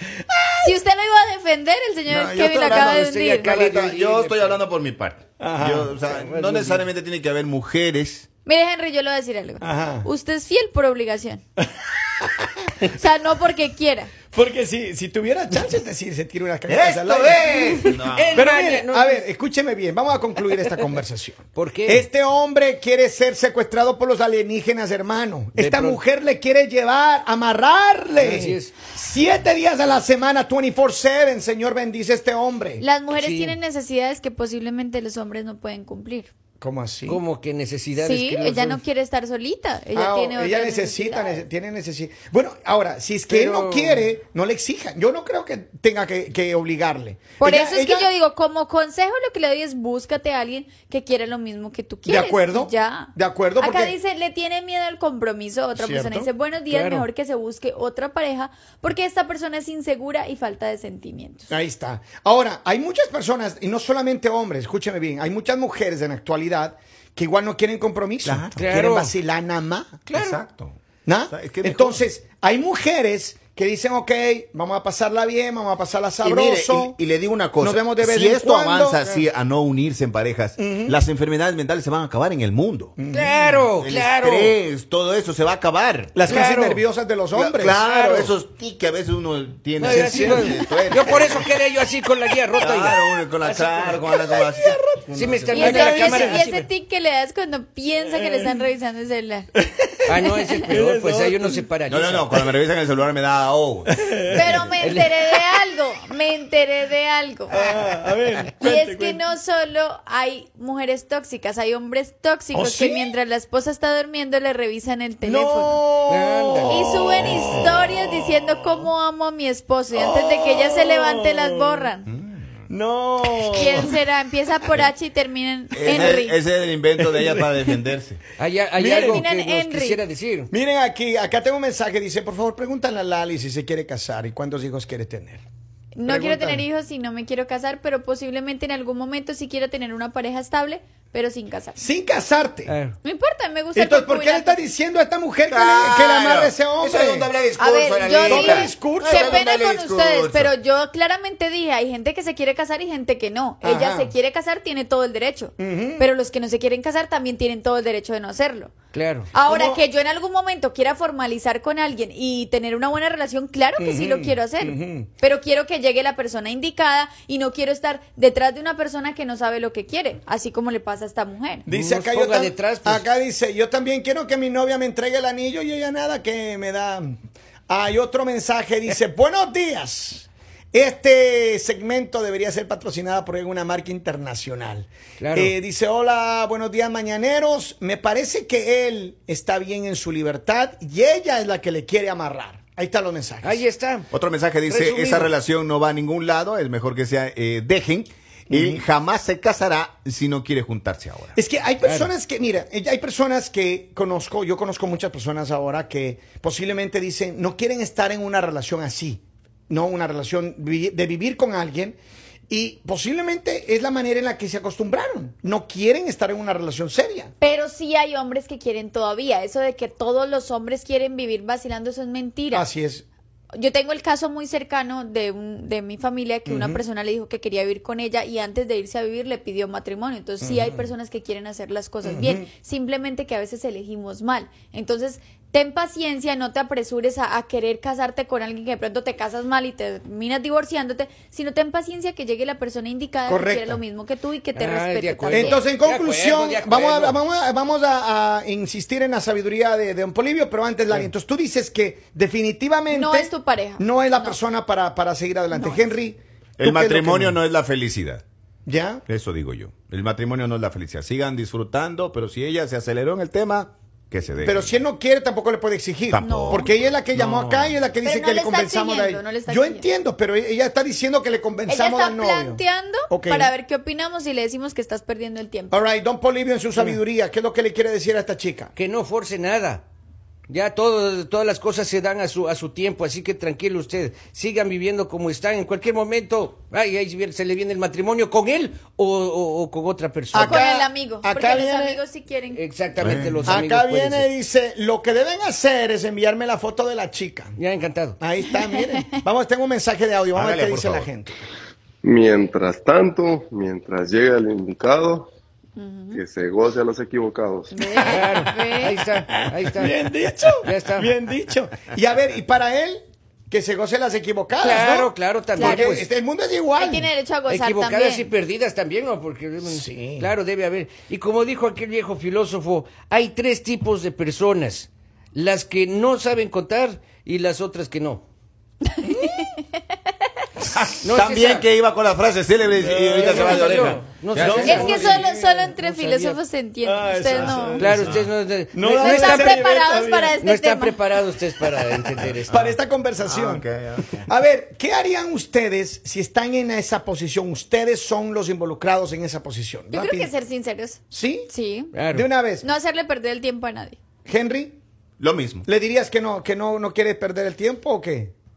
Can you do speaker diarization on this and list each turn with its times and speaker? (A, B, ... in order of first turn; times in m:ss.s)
0:00.3-0:00.8 A
0:00.6-0:03.6 B
0:02.1-0:08.2 C
0:02.7-0:04.6 D
0:05.4-0:06.0 A
0:06.0-0:06.8 D
0:08.4-0:11.4 B
0:09.6-0:10.1 A
0:11.6-0:12.5 A
0:12.8-0:14.1 B
0:14.3-0:32.8 A
0:16.7-0:18.5 C
0:17.7-0:19.2 D
0:21.5-0:22.0 D
0:25.6-0:26.0 D
0:28.2-0:28.8 D
0:32.8-0:36.3 B
0:33.1-0:33.6 D
0:36.6-0:37.2 A
0:37.0-0:38.8 D
0:38.0-0:41.4 B
0:39.9-0:48.1 A
0:43.3-0:44.0 D
0:47.4-1:01.5 B
0:52.0-0:54.0 A
0:55.8-0:56.3 A
0:56.7-0:57.0 D
1:01.5-1:10.0 A
1:08.2-1:08.7 C
1:08.6-1:09.1 D
1:10.1-1:10.8 C
1:10.1-1:10.4 D
1:11.0-1:17.0 A
1:11.3-1:12.0 C
1:16.2-1:22.9 C
1:17.6-1:19.0 A
1:20.6-1:21.0 A
1:23.0-1:23.7 A
1:23.1-1:24.6 D
1:23.8-1:26.1 C
1:26.1-1:28.3 A
1:26.2-1:26.8 D
1:27.3-1:31.5 C
1:29.8-1:33.0 D
1:29.8-1:31.4 A
1:32.6-1:34.8 C
1:33.5-1:36.4 A
1:35.1-1:36.7 D
1:35.5-1:39.5 B
1:38.0-1:38.6 A
1:39.6-1:41.7 A
1:40.0-1:42.4 D
1:40.2-1:40.5 B
1:41.9-1:44.6 C
1:43.9-1:44.7 A
1:44.3-1:47.7 B
1:44.8-1:45.1 D
1:47.5-1:49.2 A
1:48.6-1:55.8 B
1:52.5-1:53.1 A
1:55.2-1:58.9 A
1:56.1-1:56.8 D
1:56.7-2:02.1 B
1:57.2-1:57.5 C
1:59.9-2:01.9 A
2:02.1-2:02.4 C
2:02.7-2:04.0 A
2:03.5-2:06.4 B
2:05.7-2:08.2 C
2:05.8-2:06.2 A
2:07.0-2:07.7 A
2:08.4-2:10.5 D
2:08.8-2:09.2 A
2:08.8-2:10.0 B
2:10.5-2:15.4 A
2:15.9-2:21.8 B
2:16.0-2:16.6 A
2:21.8-2:22.7 A
2:22.7-2:23.0 D
2:23.0-2:24.6 B
2:23.7-2:27.3 A
2:25.5-2:30.5 C
2:27.6-2:38.7 B
2:28.2-2:29.4 A
2:33.6-2:34.1 A
2:35.6-2:36.0 A
2:38.9-2:39.3 D
2:39.3-2:51.6 B
2:39.4-2:39.8 A
2:43.8-2:45.1 A
2:51.6-2:57.2 A
2:51.7-2:53.0 D
2:57.7-3:13.6 A
3:05.2-3:05.5 D
3:13.4-3:14.1 D
3:14.1-3:21.4 C
3:14.6-3:15.3 D
3:18.5-3:18.8 A
3:21.3-3:32.0 A
3:21.8-3:22.1 D
3:32.5-3:37.3 A
3:37.4-3:42.7 B
3:42.5-3:43.0 A
3:43.5-4:05.6 B
3:46.5-3:46.8 A
3:50.4-3:50.9 A
3:52.0-3:52.5 A
4:03.3-4:03.8 A
4:04.5-4:07.2 D
4:05.3-4:17.4 A
4:12.9-4:14.4 B
4:15.5-4:15.9 B
4:16.6-4:18.2 C
4:18.6-4:19.0 A
4:19.0-4:24.8 C
4:24.4-4:33.5 A
4:26.1-4:27.7 C
4:26.2-4:26.7 B
4:28.0-4:29.9 B
4:31.7-4:35.8 B
4:35.7-4:38.7 A
4:38.7-4:39.8 D
4:40.5-4:50.6 D
4:50.3-4:52.0 A
4:50.4-4:52.6 B
4:52.5-4:54.3 D
4:53.0-4:53.6 C
4:53.4-4:57.6 A
4:57.6-4:58.2 D
4:58.2-5:01.3 A
4:58.4-4:59.1 B
5:00.3-5:01.1 C
5:02.0-5:05.3 E
5:05.8-5:06.2 B
5:06.1-5:07.7 E
5:07.7-5:09.0 B
5:08.1-5:10.0 D
5:09.6-5:17.1 A
5:10.6-5:11.1 D
5:14.6-5:16.1 D
5:15.6-5:16.0 B
5:16.8-5:18.3 B
5:17.5-5:28.2 D
5:19.6-5:20.3 A
5:28.8-5:29.8 B
5:30.7-5:34.9 C
5:31.0-5:31.6 D
5:32.8-5:35.6 A
5:33.2-5:36.4 D
5:33.4-5:33.7 B
5:34.6-5:37.9 B
5:36.8-5:38.2 A
5:37.8-5:39.6 D
5:38.0-5:38.3 C
5:38.7-5:40.4 A
5:38.9-5:41.0 B
5:40.4-5:42.7 D
5:41.6-5:43.6 A
5:43.2-5:44.3 C
5:44.2-5:50.3 A
5:49.9-5:51.9 B
5:51.1-5:51.5 A
5:51.9-5:52.3 D
5:52.1-5:52.6 A
5:52.4-5:54.0 B
5:54.2-5:54.8 A
5:55.2-5:55.6 C
5:55.6-5:58.3 A